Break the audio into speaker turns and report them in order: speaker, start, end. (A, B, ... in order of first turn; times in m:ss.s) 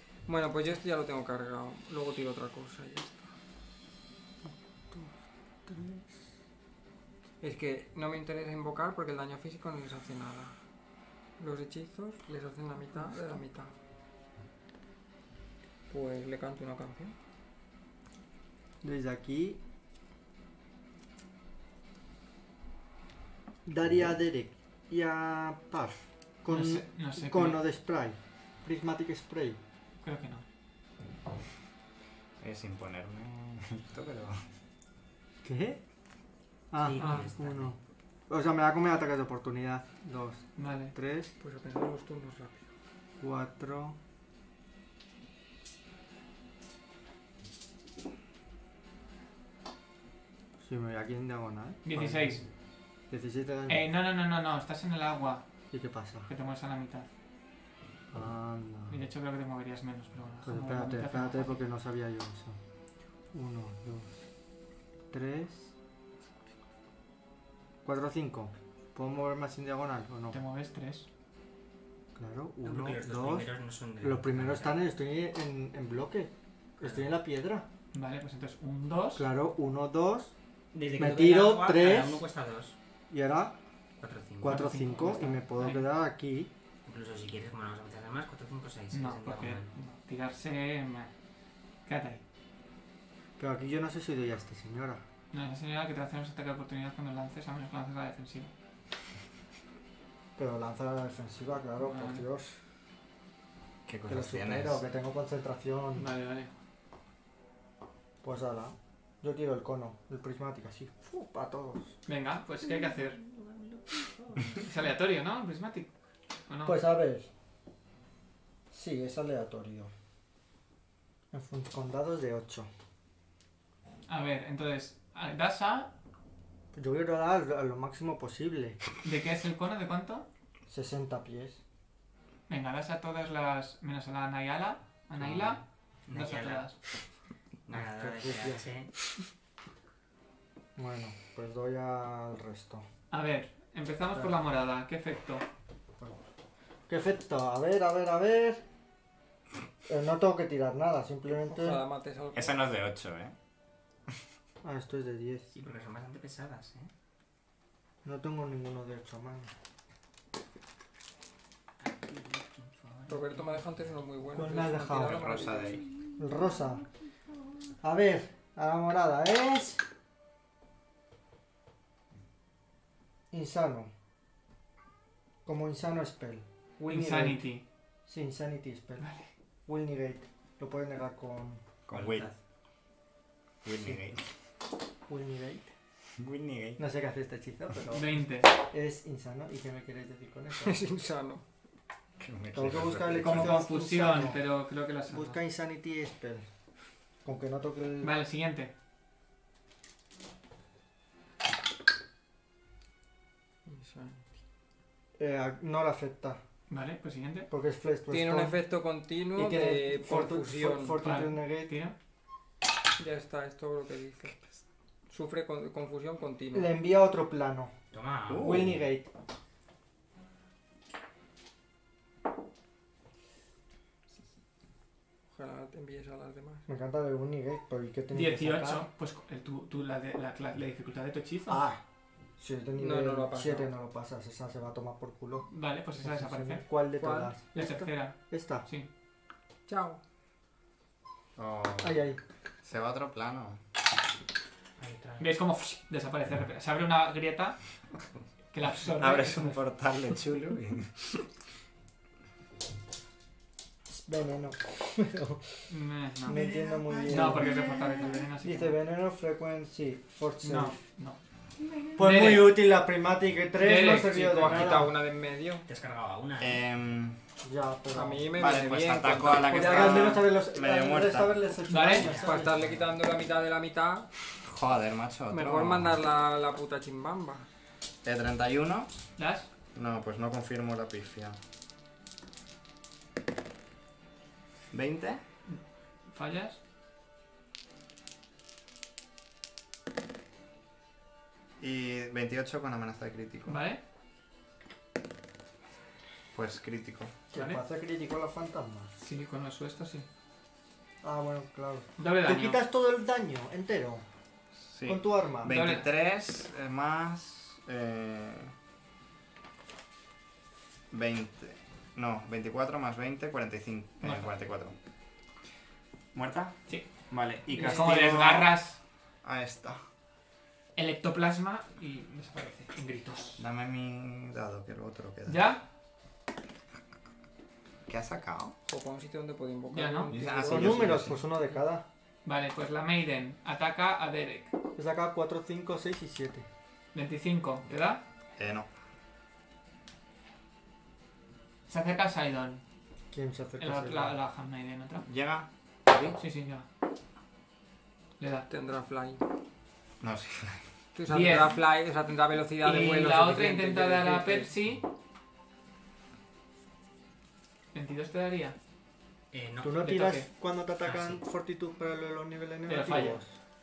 0:00.2-0:03.3 A
0:05.6-0:06.1 B
0:07.4-0:10.5 A
0:11.4-0:13.7 A
0:15.9-0:17.1 A
0:18.8-0:19.6 B
0:23.6-0:29.6 B
0:26.5-0:27.6 C
0:30.0-0:30.4 C
0:32.4-0:34.4 D
0:35.4-0:35.8 B
0:36.7-0:37.8 B
0:36.8-0:37.8 E
0:38.3-0:41.3 B
0:40.6-0:40.9 C
0:41.4-0:42.7 A
0:43.2-0:44.0 B
0:50.6-0:52.4 B
0:51.8-0:52.4 C
0:53.1-0:53.8 B
0:53.7-0:55.4 C
0:55.7-0:56.3 B
0:56.3-0:57.1 C
0:58.1-0:59.0 B
0:58.9-1:01.6 C
1:00.4-1:02.6 B
1:03.3-1:04.1 B
1:05.1-1:05.7 B
1:07.8-1:10.4 B
1:10.3-1:11.1 C
1:12.2-1:13.5 B
1:12.6-1:14.8 E
1:14.0-1:17.7 B
1:16.8-1:17.2 E
1:17.9-1:19.2 C
1:19.2-1:20.3 B
1:20.7-1:22.8 E
1:21.0-1:22.2 B
1:23.1-1:23.6 B
1:24.0-1:24.6 E
1:24.4-1:26.5 B
1:24.4-1:25.9 C
1:26.8-1:29.7 E
1:28.9-1:31.1 C
1:31.8-1:32.2 C
1:33.4-1:35.0 B
1:35.3-1:38.5 C
1:40.4-1:42.6 B
1:41.8-1:42.2 C
1:43.8-1:44.8 D
1:44.1-1:46.1 B
1:46.0-1:46.5 C
1:48.2-1:52.0 B
1:52.1-1:53.2 C
1:52.9-1:54.6 E
1:54.6-1:55.9 C
1:56.5-1:56.8 C
1:56.6-1:57.3 B
1:58.7-1:59.9 B
2:01.3-2:02.7 B
2:04.1-2:05.9 C
2:06.7-2:08.8 B
2:09.0-2:10.3 C
2:10.7-2:11.6 B
2:12.5-2:16.7 C
2:15.2-2:16.7 E
2:17.7-2:18.9 E
2:17.7-2:18.6 B
2:20.8-2:22.8 B
2:23.1-2:25.4 C
2:26.9-2:28.6 B
2:29.8-2:31.8 B
2:31.4-2:32.6 A
2:32.3-2:33.3 D
2:34.6-2:35.5 B
2:35.5-2:36.9 E
2:38.0-2:39.5 B
2:41.8-2:43.8 E
2:43.1-2:45.8 A
2:44.3-2:45.3 B
2:45.0-2:45.8 D
2:46.2-2:46.8 B
2:47.8-2:49.8 B
2:53.3-2:53.9 B
2:55.4-2:57.4 B
2:56.9-2:57.6 C
2:58.0-2:59.0 B
2:59.0-2:59.3 C
2:59.6-3:01.6 B
3:01.9-3:02.3 D
3:01.9-3:02.4 E
3:03.6-3:04.2 D
3:05.1-3:05.7 B
3:06.2-3:06.8 D
3:06.8-3:10.8 B
3:07.9-3:08.5 C
3:10.6-3:11.4 A
3:12.2-3:13.6 D
3:12.5-3:14.4 B
3:13.2-3:15.4 C
3:15.1-3:16.4 B
3:17.2-3:18.1 B
3:18.0-3:18.7 C
3:23.6-3:24.2 A
3:25.2-3:26.4 B
3:26.7-3:27.5 C
3:27.5-3:28.6 B
3:28.1-3:31.0 A
3:29.3-3:31.7 B
3:31.0-3:31.9 C
3:33.0-3:34.3 A
3:35.1-3:36.7 A
3:36.5-3:37.7 B
3:37.9-3:38.7 E
3:38.3-3:38.8 D
3:38.4-3:39.1 B
3:45.3-3:46.6 A
3:46.7-3:48.8 B
3:48.1-3:51.6 C
3:51.5-3:51.8 B
3:52.4-3:58.7 B
3:52.8-3:53.7 A
3:55.5-3:56.6 C
3:57.0-3:57.3 A
3:57.5-3:58.9 C
3:59.7-4:00.0 A
4:01.4-4:02.0 D
4:01.8-4:02.2 B
4:02.6-4:03.6 D
4:04.8-4:05.3 E
4:05.2-4:07.6 C
4:08.5-4:09.6 C
4:09.0-4:11.2 D
4:13.9-4:15.6 B
4:15.7-4:16.4 C
4:16.2-4:17.6 B
4:16.3-4:18.1 D
4:17.1-4:18.8 C
4:18.4-4:20.8 B
4:20.4-4:21.2 C
4:22.0-4:24.9 B
4:22.0-4:22.6 C
4:23.6-4:24.8 C
4:23.8-4:25.6 A
4:25.6-4:26.6 E
4:26.4-4:27.2 D
4:27.4-4:28.4 B
4:27.9-4:30.2 A
4:28.4-4:31.4 D
4:29.5-4:32.6 B
4:31.7-4:32.1 C
4:32.0-4:33.0 E
4:32.2-4:34.1 A
4:34.4-4:36.0 D
4:35.3-4:37.4 A
4:38.0-4:38.9 D
4:39.2-4:39.5 C
4:39.7-4:41.4 D
4:44.7-4:45.2 D
4:45.4-4:46.6 C
4:51.6-4:53.6 D
4:53.5-4:53.8 C
4:56.3-4:57.2 D
4:57.3-4:58.9 B
4:57.3-4:57.6 C
4:59.0-5:00.0 C
5:01.0-5:04.0 B
5:02.0-5:02.6 C
5:04.6-5:08.5 D
5:04.8-5:05.6 B
5:05.4-5:05.9 C
5:10.9-5:14.8 D
5:14.0-5:14.3 C
5:16.1-5:16.6 D
5:17.1-5:18.5 D
5:17.5-5:18.8 C
5:19.2-5:19.8 D
5:20.8-5:23.4 C
5:23.4-5:25.4 D
5:25.3-5:25.6 C
5:27.9-5:28.6 D
5:28.6-5:31.2 A
5:29.7-5:30.1 C
5:30.1-5:31.2 D
5:30.3-5:31.8 B
5:32.2-5:34.5 C
5:34.8-5:36.4 B
5:36.9-5:38.0 C
5:38.4-5:38.7 D
5:41.7-5:42.6 C
5:43.1-5:44.1 B
5:43.6-5:45.0 C
5:45.0-5:45.5 D
5:46.1-5:46.6 C
5:48.2-5:48.5 C
5:48.5-5:49.2 A
5:50.0-5:50.7 D
5:50.9-5:54.5 A
5:51.1-5:51.6 C
5:52.6-5:54.8 C
5:57.7-5:58.6 C
5:59.3-5:59.8 E
5:59.6-6:03.3 B
5:59.8-6:00.3 C
6:00.8-6:01.2 E
6:02.7-6:03.2 C